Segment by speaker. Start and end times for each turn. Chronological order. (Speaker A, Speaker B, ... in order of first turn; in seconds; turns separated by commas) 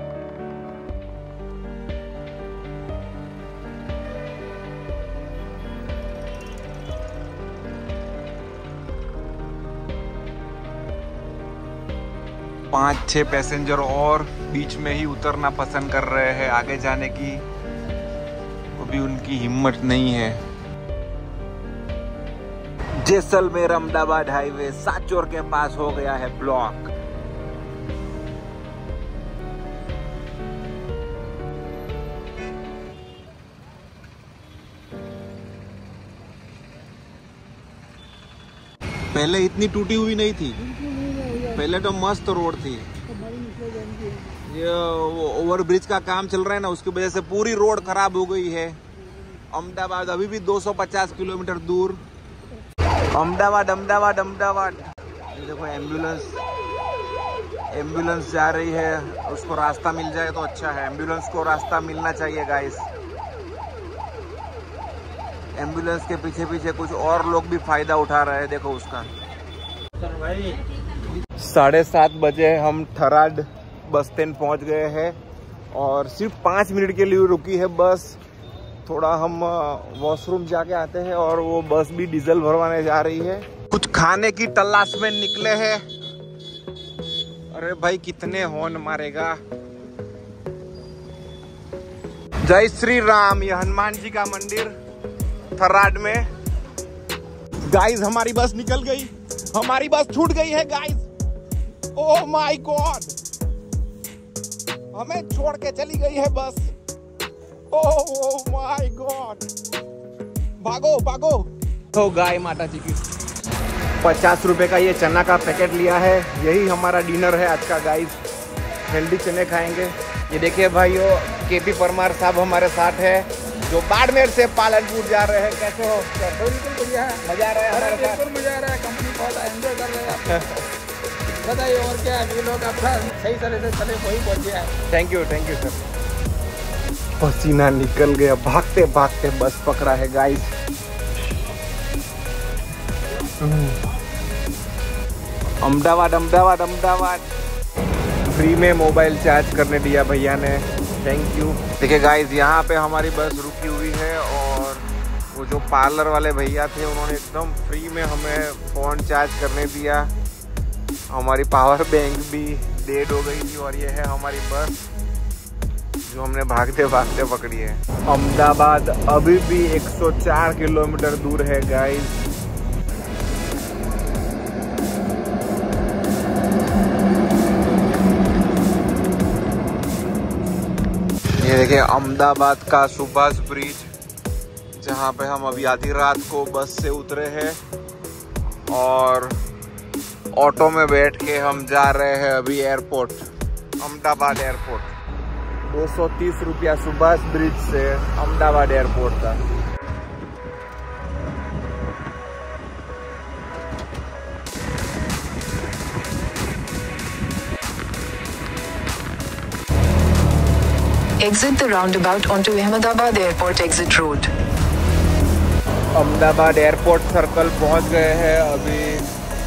Speaker A: 12.7-17.4, Speaker A: 18.8-20.4, Speaker A: 23.0-26.9, Speaker A: 39.1-40.7, Speaker A: 41.3-42.9, Speaker B: 43.3-44.1, Speaker A: 44.2-48.8, Speaker A: 49.5-52.0, Speaker A: 53.1-56.4, Speaker A: 57.7-62.9, Speaker A: 65.5-69.1, Speaker A: 71.4-75.2, Speaker A: 75.7-78.2, Speaker A: 78.8-85.8, Speaker A: 87.5-89.4, Speaker A: 92.4-94.7, Speaker A: 95.5-96.2, Speaker A: 97.7-101.0, Speaker A: 101.9-103.1, Speaker A: 104.9-106.7, Speaker A: 107.7-109.4, Speaker A: 110.6-113.0, Speaker A: 114.0-118.2, Speaker A: 118.9-128.3, Speaker B: 128.3-130.0, Speaker A: 130.0-130.7, Speaker B: 131.4-134.4, Speaker A: 134.4-135.8, Speaker A: 137.2-140.5, Speaker A: 143.4-143.8, Speaker A: 145.6-147.2, Speaker A: 148.3-160.1, Speaker A: 161.1-164.8, Speaker A: 166.1-172.2, Speaker A: 181.4-183.9, Speaker A: 184.8-187.6, Speaker A: 188.7-189.3, Speaker A: 190.3-193.2, Speaker A: 193.8-194.9, Speaker A: 195.7-199.4, Speaker C: 211.2-214.3, Speaker A: 215.9-219.1